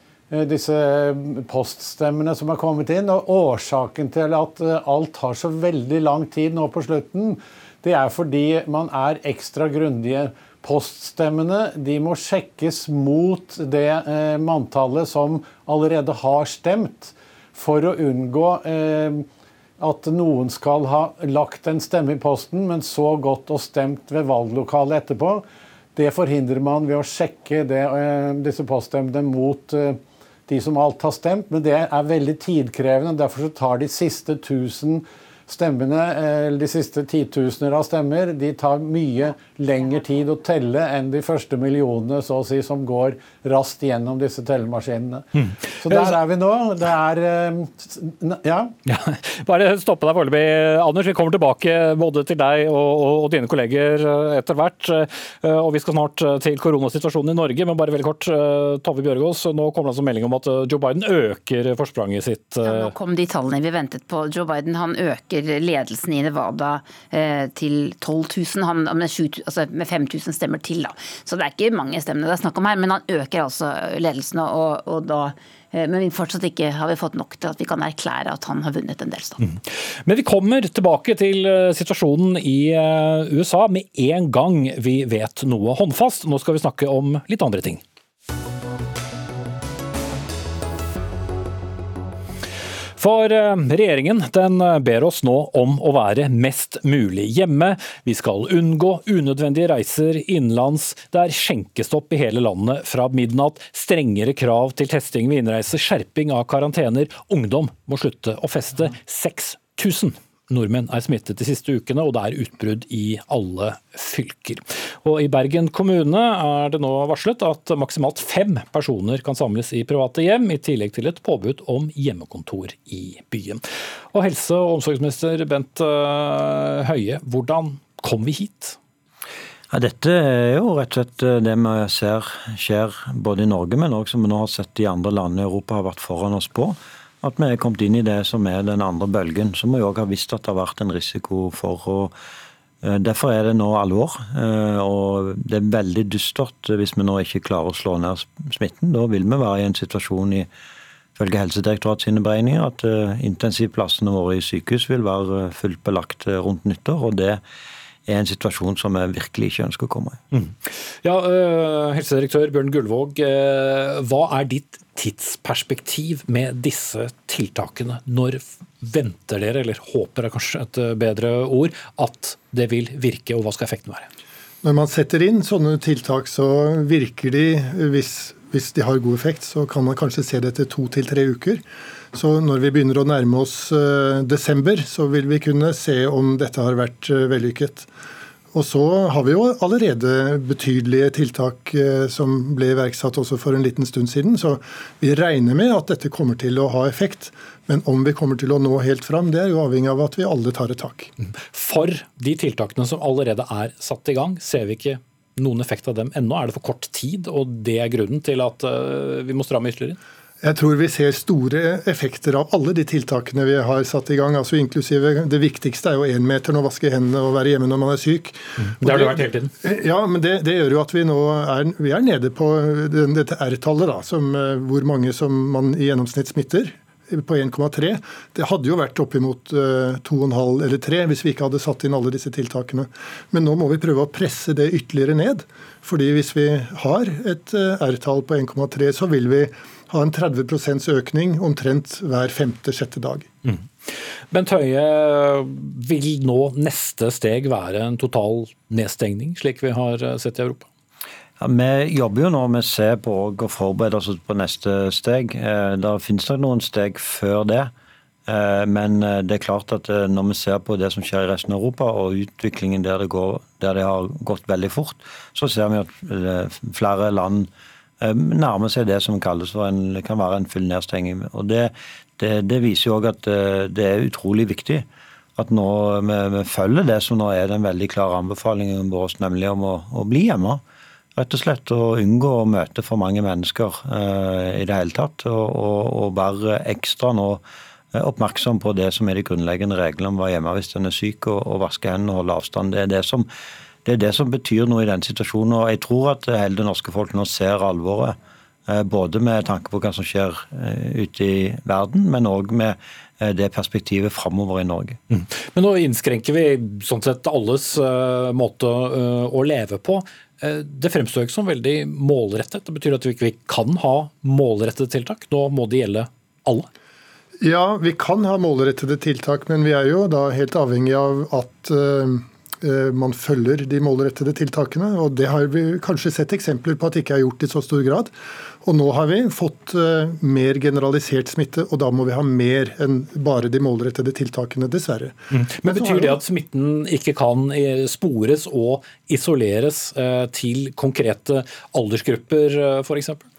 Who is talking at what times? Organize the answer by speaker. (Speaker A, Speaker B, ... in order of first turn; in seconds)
Speaker A: 0.3-19.2, 19.8-25.4, 25.9-48.7
Speaker B: 48.9-62.9, 79.4-87.8, 93.0-123.6, 124.1-128.8, 160.3-174.1, 201.5-210.0, 218.6-219.5, 243.4-250.7, 305.1-316.7, 335.3-343.2
Speaker C: 62.6-79.4
Speaker D: 129.7-142.1, 142.8-150.5, 151.2-157.4, 158.1-160.2, 251.4-257.7, 258.2-267.5, 268.0-280.6, 281.1-293.3, 293.8-305.0
Speaker E: 174.6-187.9, 188.5-201.1, 210.4-243.3, 317.4-336.2